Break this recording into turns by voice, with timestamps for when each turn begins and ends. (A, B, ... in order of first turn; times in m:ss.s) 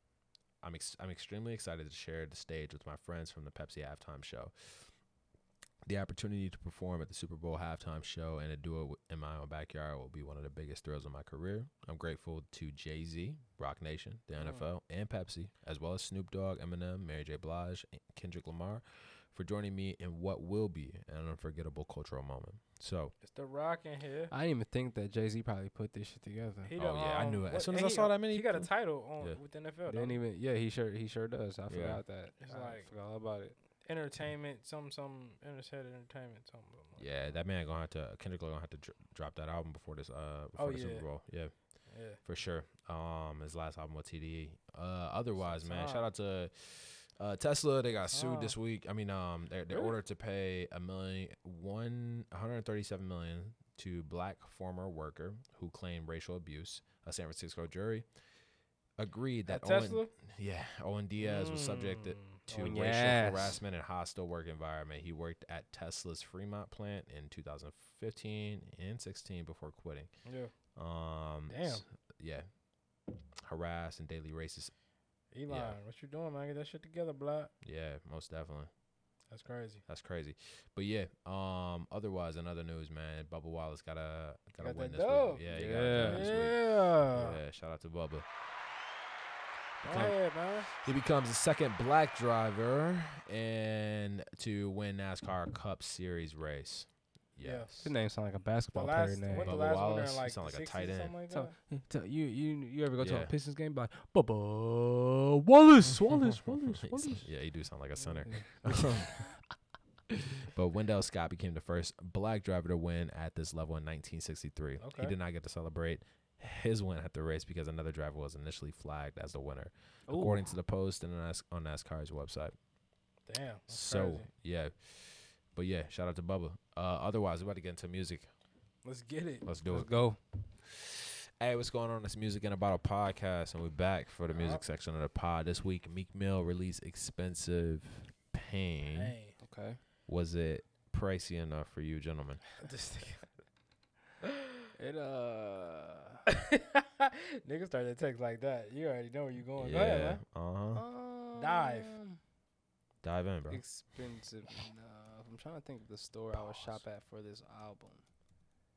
0:00.6-0:04.9 A
0:05.8-0:23.1 A
0:14.4-0:14.6 B
0:23.2-0:24.3 B
0:24.3-0:26.7 C
0:26.6-0:30.2 B
0:26.8-0:29.4 A
0:29.9-0:33.6 C
0:31.7-0:32.0 A
0:32.4-0:32.9 B
0:33.8-0:37.3 B
0:37.0-0:41.5 A
0:40.6-0:41.1 B
0:41.9-0:42.2 B
0:42.2-0:58.0 A
0:45.4-0:46.1 B
0:48.1-0:48.5 B
0:49.7-0:50.0 B
0:59.0-1:10.1 A
0:59.5-1:00.1 B
1:01.2-1:02.7 B
1:02.5-1:03.6 C
1:10.2-1:10.5 B
1:10.8-1:12.5 A
1:11.5-1:11.8 B
1:13.4-1:14.7 A
1:15.3-1:17.5 B
1:15.5-1:15.8 A
1:17.6-1:18.7 A
1:19.3-1:19.8 B
1:19.9-1:28.3 A
1:24.6-1:27.4 B
1:25.5-1:26.3 C
1:29.8-1:30.2 A
1:29.8-1:30.7 B
1:30.7-1:37.9 A
1:37.4-1:37.7 B
1:37.8-1:39.6 C
1:38.7-1:41.5 B
1:39.4-1:41.1 A
1:41.3-1:47.3 C
1:43.0-1:43.3 A
1:45.8-1:49.1 A
1:48.0-1:48.3 B
1:48.3-1:49.3 C
1:50.5-2:02.5 A
1:54.8-1:55.1 B
2:00.1-2:00.5 C
2:03.3-2:04.3 B
2:03.7-2:08.3 A
2:08.8-2:09.8 B
2:09.4-2:09.9 A
2:09.7-2:10.2 C
2:10.6-2:19.1 A
2:14.3-2:14.6 B
2:18.9-2:19.4 B
2:19.4-2:19.8 C
2:20.1-2:22.4 A
2:22.6-2:23.3 B
2:24.8-2:26.2 C
2:26.3-2:30.2 B
2:29.6-2:30.8 A
2:30.7-2:32.2 C
2:31.3-2:31.9 B
2:33.0-2:33.6 A
2:33.5-2:38.0 C
2:36.5-2:36.8 A